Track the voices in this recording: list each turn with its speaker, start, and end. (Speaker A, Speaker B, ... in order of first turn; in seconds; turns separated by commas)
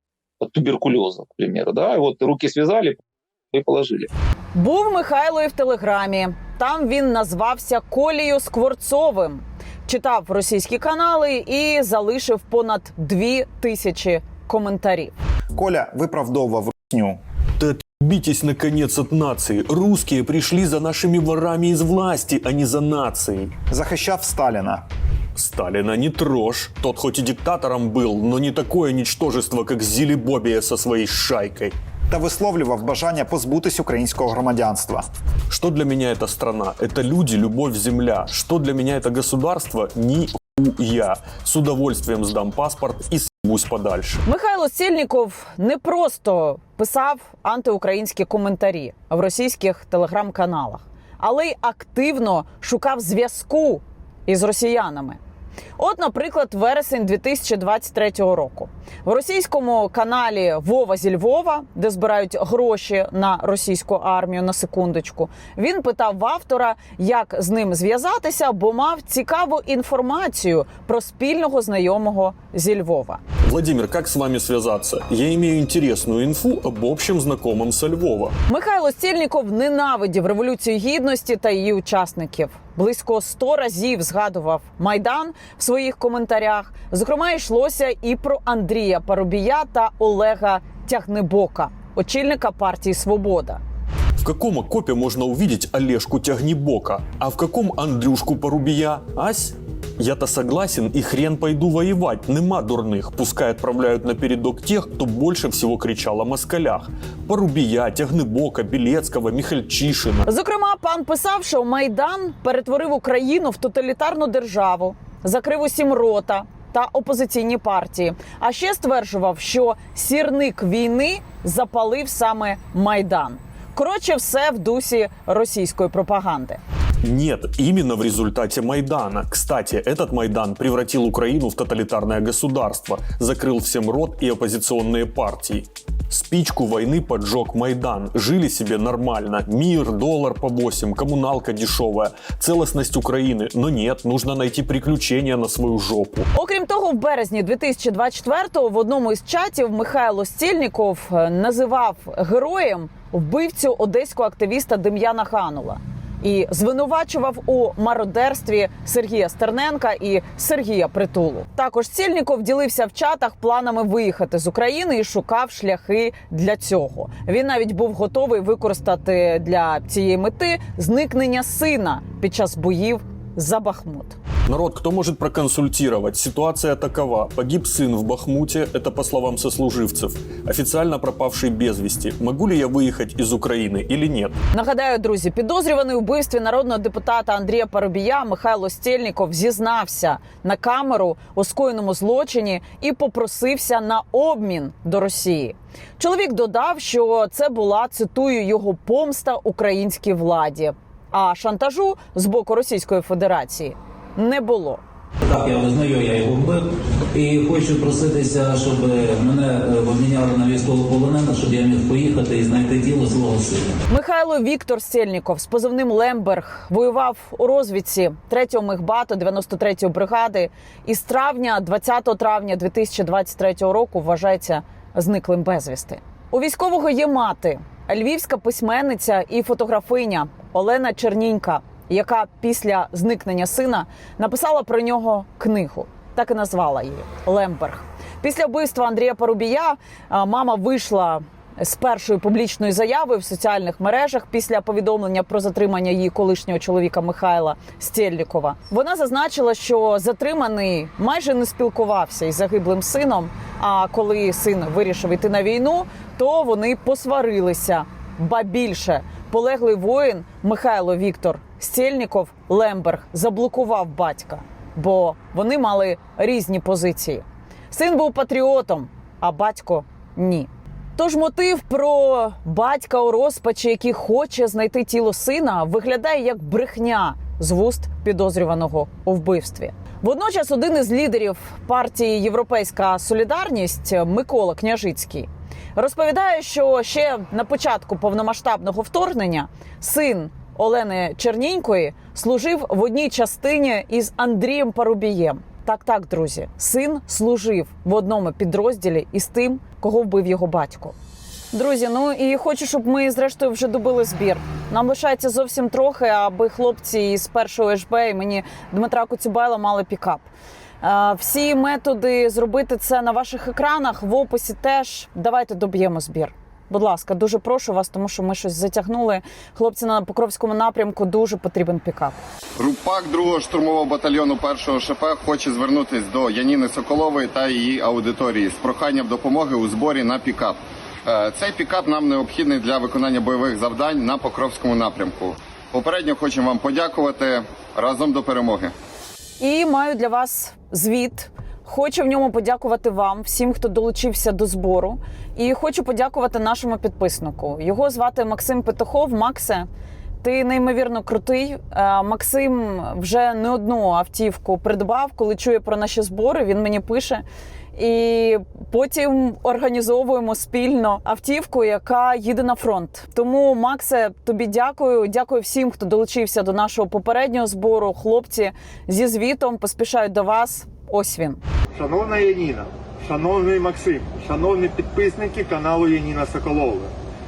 Speaker A: 0.4-3.0, Speaker A: 3.5-4.1, Speaker B: 4.5-15.1, Speaker C: 15.5-17.2, Speaker D: 17.6-23.5, Speaker C: 23.7-24.8, Speaker D: 25.4-31.7, Speaker C: 32.1-35.0, Speaker D: 35.5-44.2, Speaker B: 44.2-55.2, Speaker B: 55.8-73.2, Speaker D: 73.5-78.3, Speaker B: 78.5-93.6, Speaker D: 94.2-110.3, Speaker B: 110.2-126.6, Speaker D: 127.0-146.2, Speaker B: 146.3-174.2, Speaker D: 174.5-184.3, Speaker B: 184.5-204.8, Speaker E: 205.2-213.7, Speaker B: 213.9-300.9, Speaker B: 301.5-310.2, Speaker B: 310.8-322.2, Speaker F: 322.6-338.7, Speaker B: 339.4-349.7, Speaker B: 350.2-371.4, Speaker G: 371.7-376.9